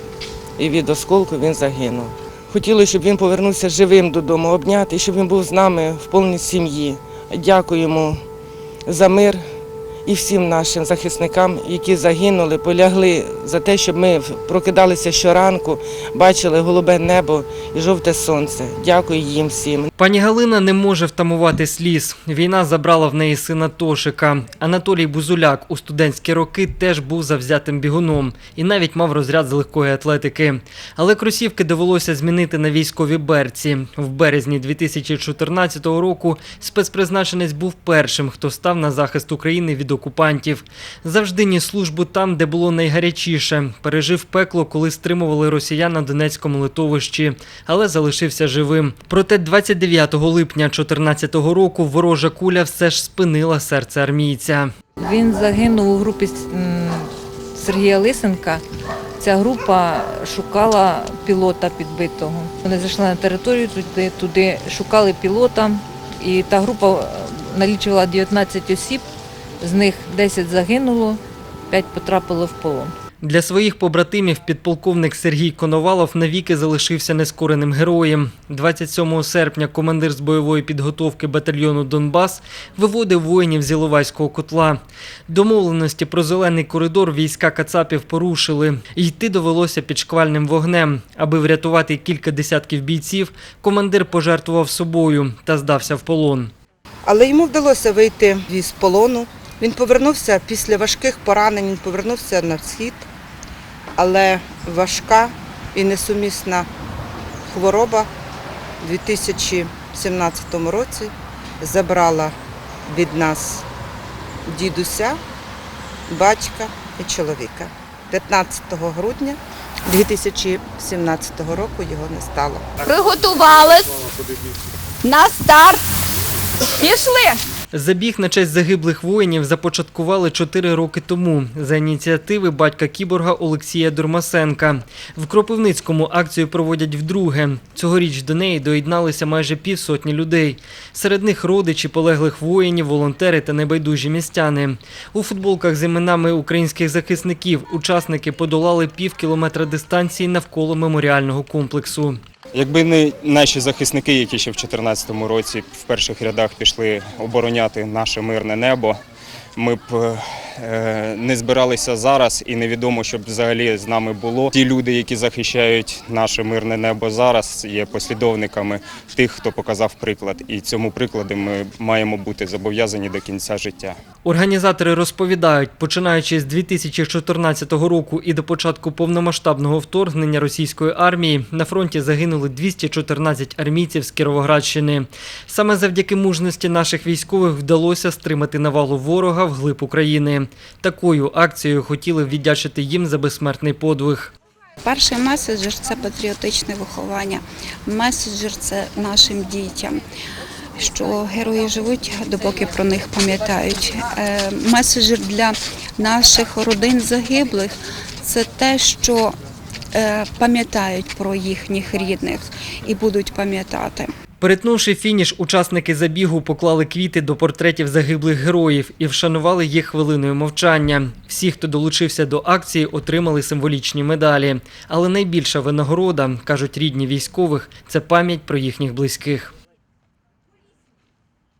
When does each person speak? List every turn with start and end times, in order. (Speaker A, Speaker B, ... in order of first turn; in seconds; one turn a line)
Speaker A: 0.6-8.2
Speaker A: 8.9-9.4
Speaker A: 10.1-19.9
Speaker B: 20.0-54.7
Speaker C: 55.0-58.6
Speaker C: 59.2-69.0
Speaker C: 69.6-71.2
Speaker C: 71.7-72.9
Speaker B: 73.2-96.5
Speaker D: 97.0-103.1
Speaker D: 104.0-106.7
Speaker D: 107.5-108.1
Speaker D: 108.8-113.7
Speaker D: 114.5-115.2
Speaker D: 116.1-122.7
Speaker E: 122.9-124.0
Speaker E: 125.1-125.8
Speaker E: 126.8-127.3
Speaker B: 127.7-152.2
Speaker F: 152.5-159.0
Speaker F: 159.6-174.0
Speaker B: 174.2-194.3
Speaker G: 194.8-200.0
Speaker G: 200.8-209.3
Speaker G: 209.9-214.1
Speaker B: 214.4-229.5